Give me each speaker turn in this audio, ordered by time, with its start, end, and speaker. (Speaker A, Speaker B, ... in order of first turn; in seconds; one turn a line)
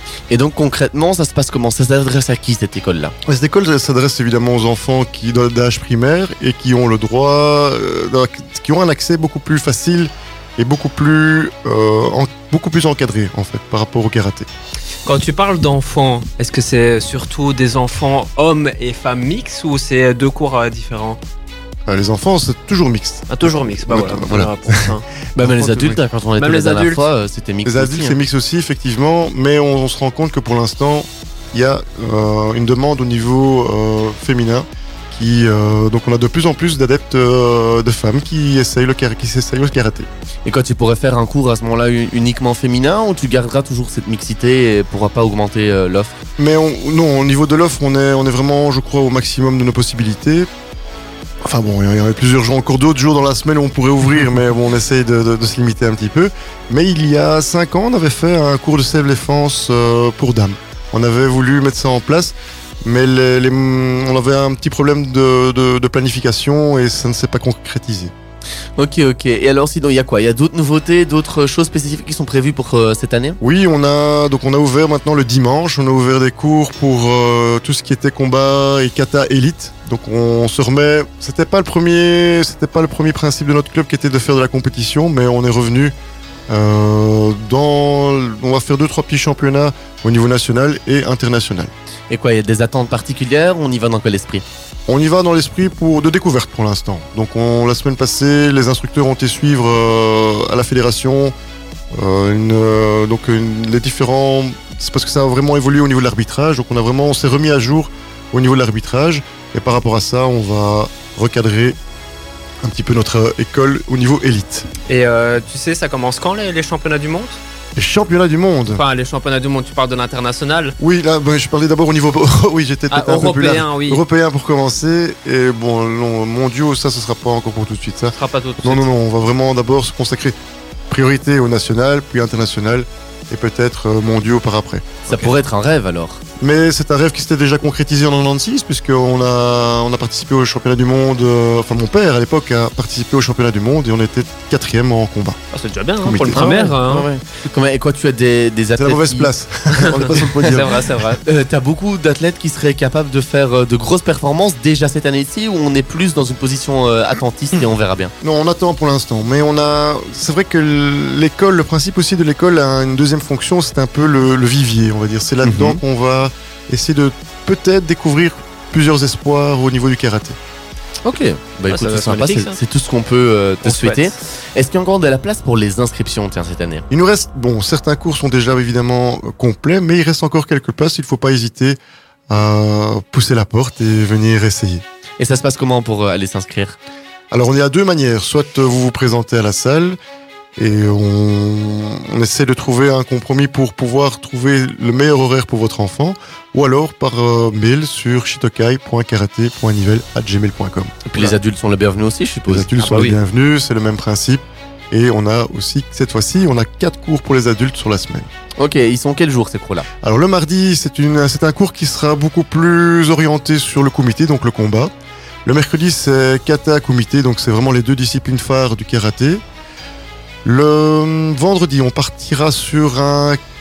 Speaker A: 0.3-3.1
Speaker B: 3.2-14.5
Speaker C: 15.1-21.2
Speaker B: 21.9-26.0
Speaker C: 23.3-25.0
Speaker A: 25.4-28.2
Speaker C: 26.4-27.0
Speaker B: 27.6-40.1
Speaker A: 40.5-46.2
Speaker B: 46.4-50.5
Speaker B: 51.4-68.1
Speaker A: 68.8-73.4
Speaker B: 73.4-85.9
Speaker B: 86.5-91.7
Speaker A: 92.1-94.4
Speaker B: 94.9-101.3
Speaker B: 101.9-111.8
Speaker B: 112.6-114.7
Speaker C: 114.9-117.4
Speaker B: 117.8-118.8
Speaker C: 118.7-120.8
Speaker B: 120.8-130.4
Speaker C: 122.9-124.0
Speaker C: 128.2-128.8
Speaker B: 130.9-135.0
Speaker A: 135.1-136.2
Speaker B: 136.4-145.4
Speaker C: 145.5-147.1
Speaker B: 146.0-146.5
Speaker A: 146.3-149.3
Speaker B: 148.8-150.8
Speaker C: 149.7-151.2
Speaker A: 149.9-150.6
Speaker A: 151.2-158.1
Speaker B: 158.2-170.4
Speaker A: 165.4-165.8
Speaker A: 171.0-176.8
Speaker C: 171.7-172.6
Speaker C: 173.6-174.1
Speaker B: 176.9-181.8
Speaker B: 182.3-184.8
Speaker A: 185.2-186.8
Speaker B: 187.3-190.0
Speaker B: 190.6-201.3
Speaker A: 201.1-202.9
Speaker B: 202.5-208.3
Speaker C: 202.8-203.1
Speaker A: 208.6-209.9
Speaker B: 210.0-214.9
Speaker B: 215.4-219.4
Speaker B: 220.4-223.4